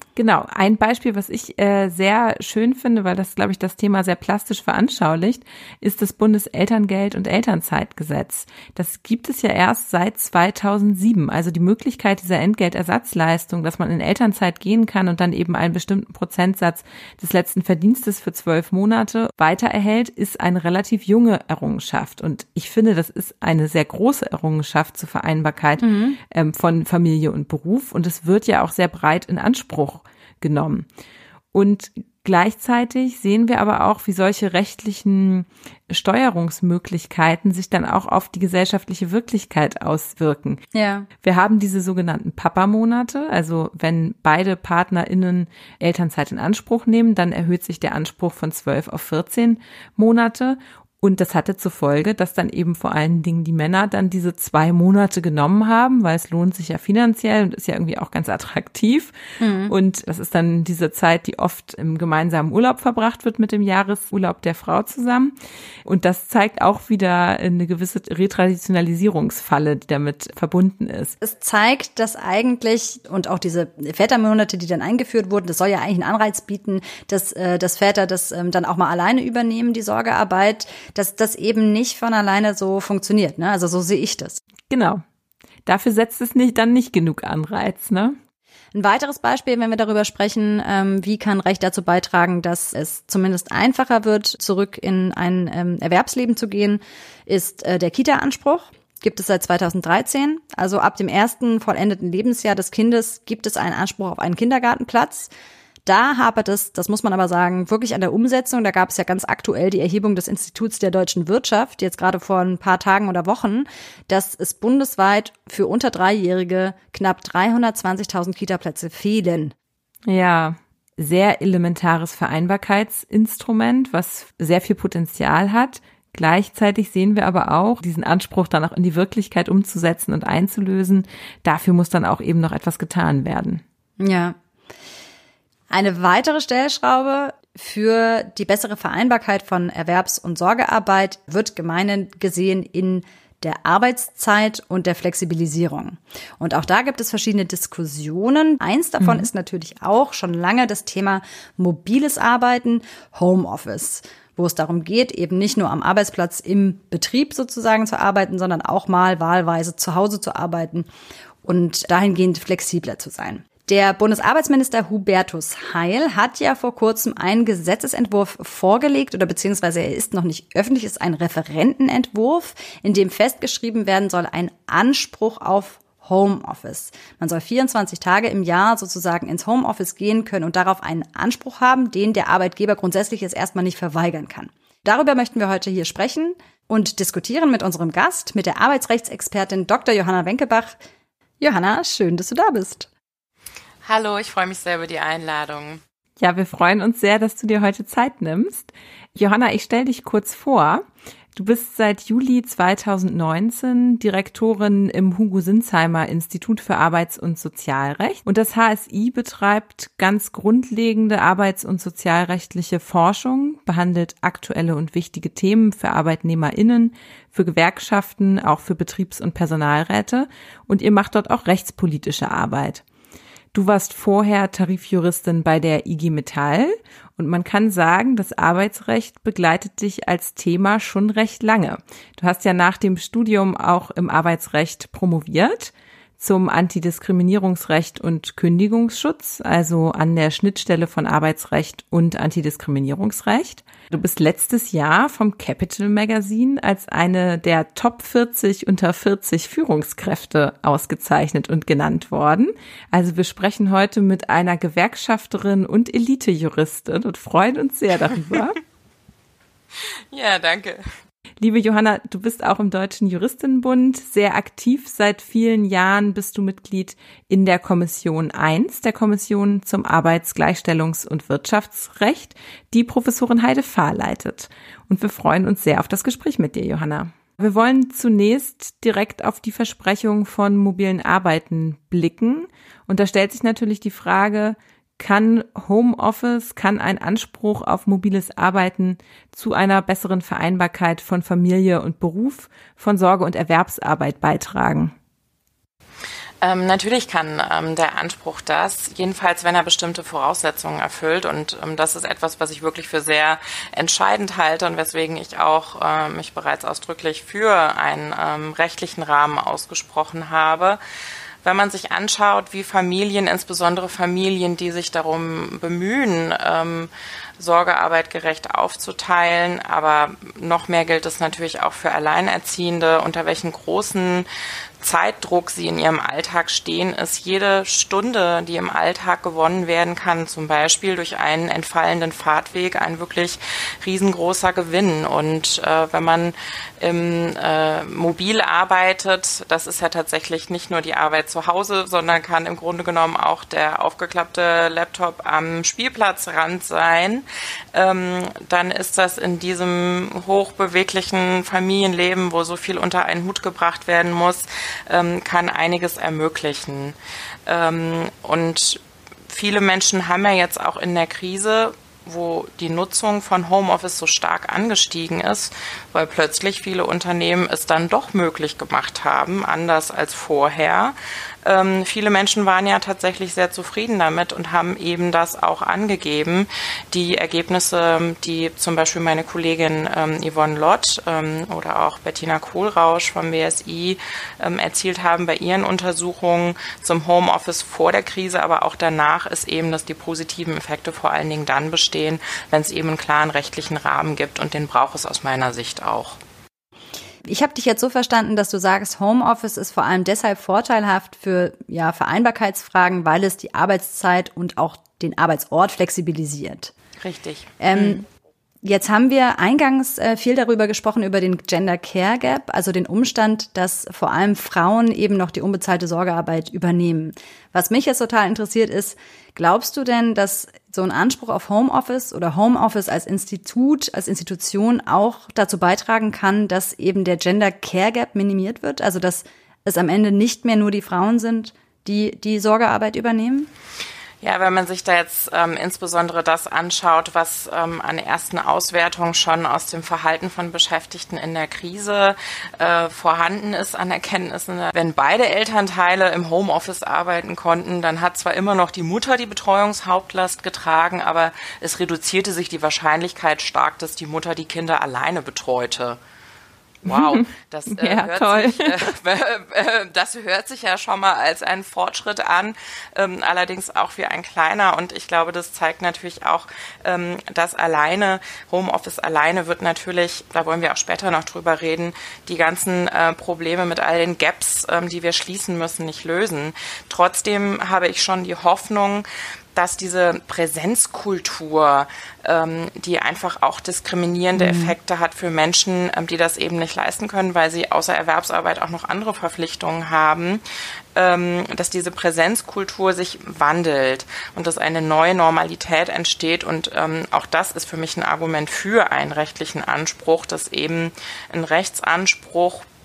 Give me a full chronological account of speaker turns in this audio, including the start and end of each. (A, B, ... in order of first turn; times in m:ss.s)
0:00.2-0:30.9 A
0:25.8-0:26.2 B
0:31.5-0:40.6 A
0:40.7-0:41.1 B
0:41.2-1:05.3 A
0:59.4-0:59.7 B
1:05.8-1:11.1 A
1:11.2-1:24.4 B
1:24.7-1:25.0 A
1:25.6-1:28.2 A
1:28.7-1:45.3 B
1:45.8-1:59.5 B
2:00.1-2:13.6 A
2:14.0-2:14.4 B
2:15.7-2:40.9 B
2:29.0-2:29.3 A
2:41.4-3:10.8 B
3:11.4-3:12.9 B
3:13.8-3:15.8 C
3:16.2-3:42.8 A
3:43.5-4:18.6 A
4:20.1-4:20.9 C
4:21.4-4:54.9 A
4:56.4-5:10.8 C
5:11.4-5:24.3 C
5:24.8-5:56.9 C
5:57.5-6:36.2 C
6:37.2-6:46.7 B
6:47.0-6:48.0 C
6:47.6-6:48.0 B
6:48.6-7:13.5 B
7:14.2-7:36.0 C
7:36.8-8:10.4 C
7:36.9-7:38.9 A
8:04.4-8:04.7 B
8:11.0-8:22.6 C